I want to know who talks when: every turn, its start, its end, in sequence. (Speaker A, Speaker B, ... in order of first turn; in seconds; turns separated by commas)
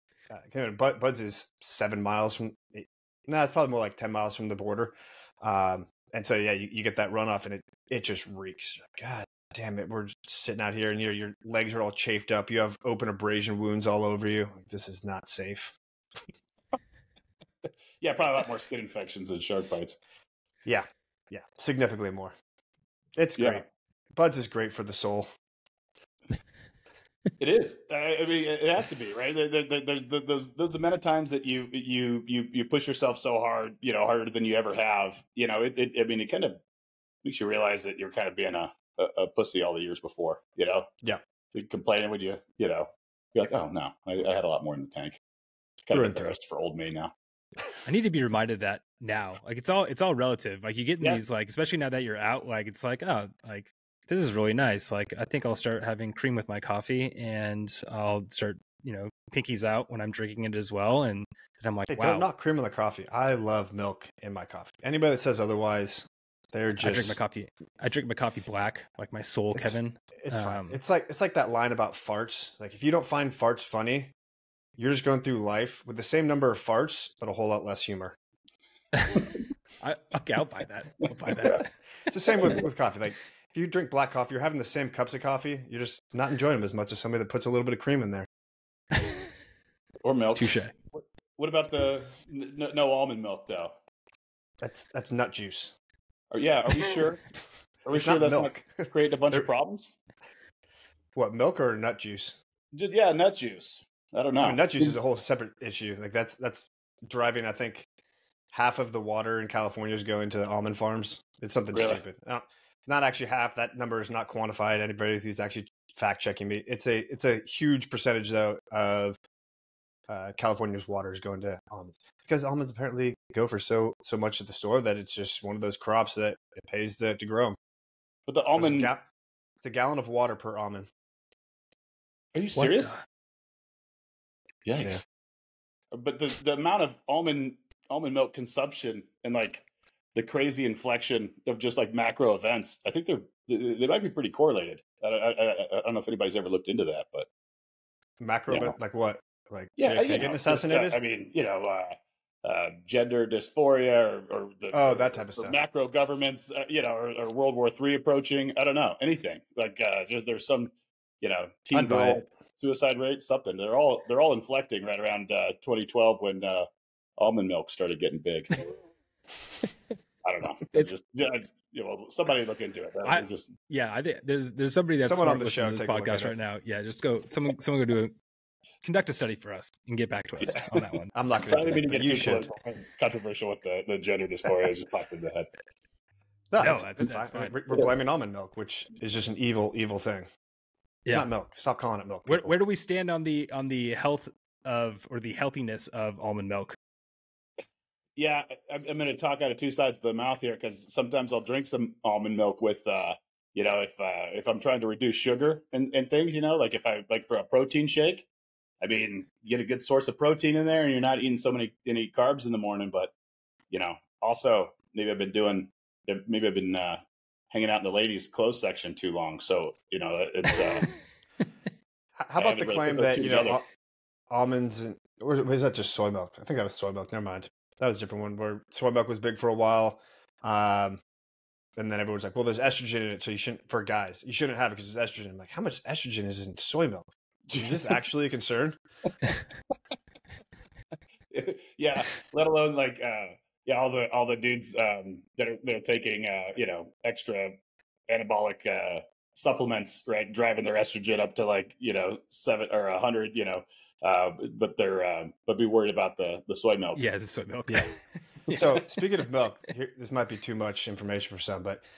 Speaker A: 0.3-15.8, Speaker B: 18.0-20.0, Speaker A: 20.6-22.3, Speaker A: 23.1-23.6, Speaker B: 23.4-23.6, Speaker A: 24.1-25.3, Speaker B: 27.4-36.6, Speaker B: 37.2-40.9, Speaker B: 41.5-45.2, Speaker B: 45.8-47.1, Speaker A: 45.9-46.3, Speaker C: 47.8-62.2, Speaker A: 61.9-67.2, Speaker C: 66.8-70.8, Speaker A: 69.5-74.1, Speaker A: 74.8-78.1, Speaker C: 78.9-79.2, Speaker C: 79.8-81.7, Speaker A: 82.1-88.3, Speaker C: 82.3-82.6, Speaker B: 90.0-93.7, Speaker C: 90.3-90.7, Speaker A: 94.6-95.7, Speaker B: 96.3-97.2, Speaker B: 97.8-99.9, Speaker A: 97.9-99.5, Speaker A: 101.1-102.4, Speaker B: 102.7-105.0, Speaker A: 104.4-107.8, Speaker A: 108.5-119.2, Speaker B: 111.7-112.0, Speaker A: 120.1-127.6, Speaker B: 128.3-128.9, Speaker A: 128.6-129.0, Speaker A: 129.6-130.9, Speaker B: 132.3-132.9, Speaker C: 132.6-133.0, Speaker B: 134.6-135.0, Speaker B: 135.9-147.3, Speaker A: 148.2-151.0, Speaker B: 148.5-148.7, Speaker B: 149.8-166.7, Speaker A: 154.7-155.6, Speaker A: 161.7-162.2, Speaker B: 167.2-168.7, Speaker B: 170.2-173.5, Speaker C: 173.0-178.1, Speaker A: 175.0-176.3, Speaker C: 178.8-181.1, Speaker B: 180.4-180.8, Speaker A: 181.1-182.5, Speaker B: 181.5-185.5, Speaker A: 186.5-190.3, Speaker C: 186.6-187.5, Speaker A: 191.1-192.5, Speaker C: 192.2-196.8, Speaker B: 198.2-208.3, Speaker B: 208.8-213.1, Speaker B: 213.7-220.9, Speaker A: 222.2-223.6, Speaker B: 222.4-223.6, Speaker A: 224.3-231.0, Speaker A: 231.8-238.8, Speaker B: 237.5-238.0, Speaker B: 241.3-247.6, Speaker B: 248.1-257.0, Speaker C: 256.9-259.0, Speaker A: 258.5-261.8